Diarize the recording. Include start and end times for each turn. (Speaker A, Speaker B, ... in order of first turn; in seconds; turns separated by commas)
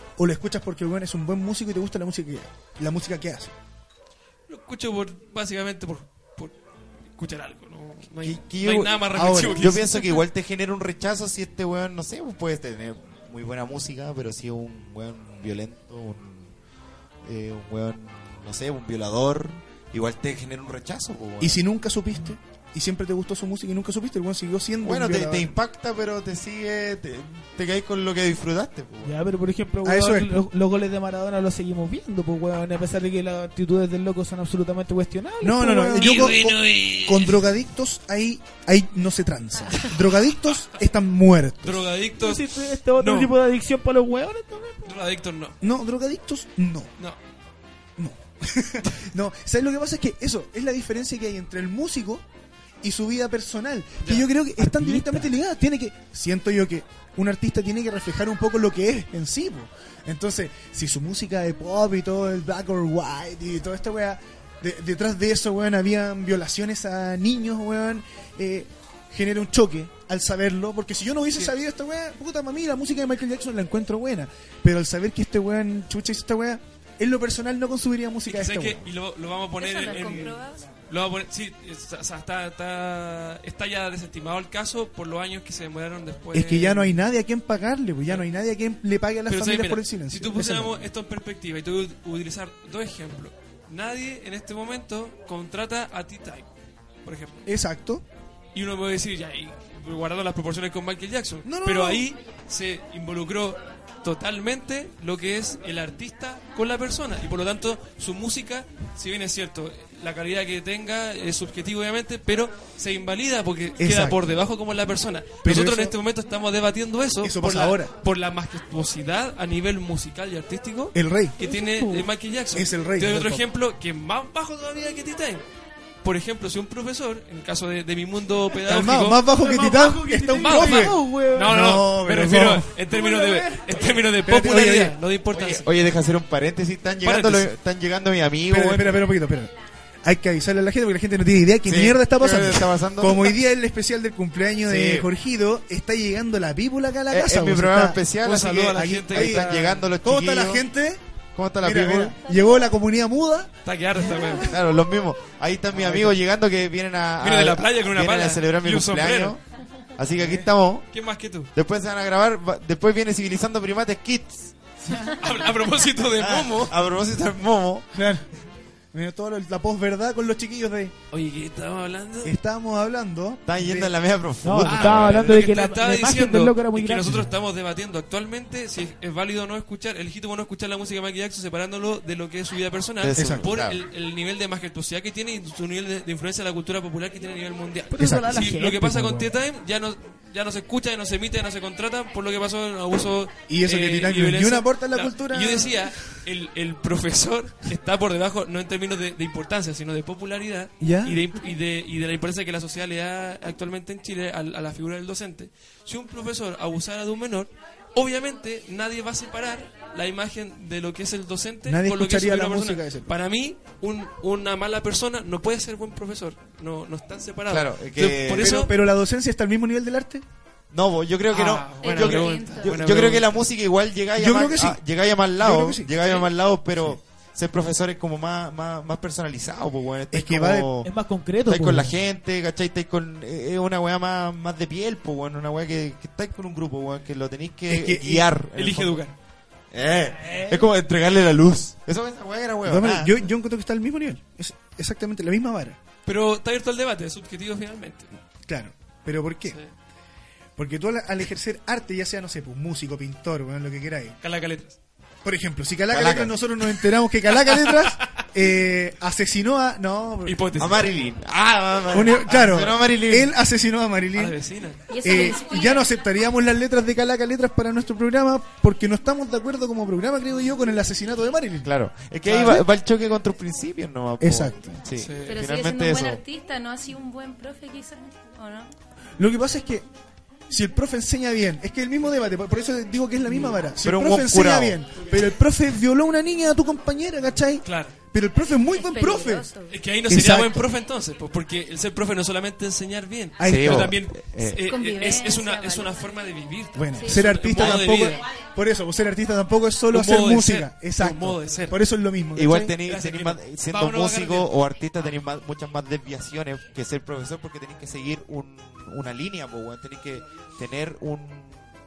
Speaker A: 0.2-3.5, Speaker B: 4.5-6.5, Speaker B: 7.2-10.2, Speaker C: 8.2-16.5, Speaker A: 9.1-9.8, Speaker C: 17.2-21.6, Speaker A: 21.4-25.6, Speaker C: 24.8-29.2, Speaker D: 29.0-36.3, Speaker A: 29.9-30.4, Speaker A: 35.4-41.9, Speaker B: 35.9-37.5, Speaker B: 41.6-43.3, Speaker D: 42.2-45.0, Speaker B: 44.9-45.6, Speaker A: 45.6-46.9, Speaker A: 48.0-52.2, Speaker A: 52.8-78.8, Speaker D: 54.6-55.3, Speaker B: 78.3-87.0, Speaker E: 79.6-80.6, Speaker A: 86.3-90.9, Speaker B: 89.3-96.5, Speaker B: 97.0-97.4, Speaker A: 97.5-98.0, Speaker B: 98.5-125.4, Speaker A: 101.5-102.0, Speaker A: 113.8-114.2, Speaker A: 115.4-116.0, Speaker A: 117.2-117.9, Speaker A: 120.9-121.4, Speaker D: 121.4-122.1, Speaker A: 122.5-123.4, Speaker B: 126.0-129.5, Speaker A: 128.7-132.7, Speaker D: 129.3-131.6, Speaker B: 130.3-135.8, Speaker D: 132.9-134.0, Speaker A: 134.2-134.9, Speaker C: 135.3-139.1, Speaker B: 137.0-137.5, Speaker A: 138.5-139.5, Speaker A: 140.0-148.0, Speaker C: 141.6-143.4, Speaker C: 144.7-145.1, Speaker C: 147.1-150.7, Speaker B: 148.2-149.9, Speaker A: 148.7-151.0, Speaker C: 151.3-152.2, Speaker A: 151.6-153.5, Speaker B: 153.7-154.5, Speaker C: 154.3-159.4, Speaker B: 157.2-159.4, Speaker C: 160.0-160.9, Speaker A: 160.2-160.5, Speaker B: 160.9-161.5, Speaker C: 161.6-164.6, Speaker D: 164.9-165.1, Speaker B: 165.0-166.8, Speaker C: 166.0-167.9, Speaker A: 167.9-168.2, Speaker A: 168.9-170.9, Speaker B: 171.1-172.3, Speaker A: 172.2-173.9, Speaker C: 173.4-175.4, Speaker D: 174.4-177.3, Speaker B: 174.7-218.8, Speaker C: 183.0-183.8, Speaker A: 183.2-183.5, Speaker D: 187.9-189.3, Speaker A: 188.0-188.3, Speaker A: 193.5-195.9, Speaker A: 200.8-201.2, Speaker A: 211.7-213.1, Speaker C: 217.5-218.5, Speaker A: 218.4-220.2, Speaker C: 220.7-230.9, Speaker B: 221.3-223.3, Speaker E: 221.8-222.7, Speaker A: 224.2-224.8, Speaker A: 225.4-225.9, Speaker B: 226.0-226.3, Speaker A: 230.1-230.7, Speaker D: 230.8-231.9, Speaker C: 231.5-239.0, Speaker A: 237.7-238.3, Speaker B: 238.5-239.2, Speaker C: 239.7-243.3, Speaker D: 240.1-240.7, Speaker A: 242.7-245.8, Speaker B: 246.1-248.1, Speaker A: 248.5-249.6, Speaker A: 250.6-254.2, Speaker B: 254.2-254.8, Speaker A: 255.2-260.8, Speaker C: 255.9-256.4, Speaker B: 257.4-258.2, Speaker B: 260.2-260.8, Speaker C: 260.6-263.4, Speaker A: 261.9-264.4, Speaker B: 264.1-264.9, Speaker E: 264.9-265.9, Speaker A: 265.0-271.7, Speaker C: 271.6-276.2, Speaker B: 272.3-272.6, Speaker A: 272.3-272.6, Speaker A: 274.2-274.8, Speaker B: 275.0-275.4, Speaker E: 275.3-278.7, Speaker A: 279.2-279.9, Speaker A: 280.5-289.5, Speaker C: 283.8-284.8, Speaker B: 287.6-287.9, Speaker E: 288.7-289.8, Speaker B: 289.7-298.2, Speaker A: 290.1-290.6, Speaker A: 293.4-294.0, Speaker C: 293.4-294.6, Speaker E: 294.7-295.9, Speaker A: 296.8-302.8, Speaker E: 297.0-297.2, Speaker B: 299.9-301.8, Speaker C: 302.3-311.7, Speaker B: 302.9-304.5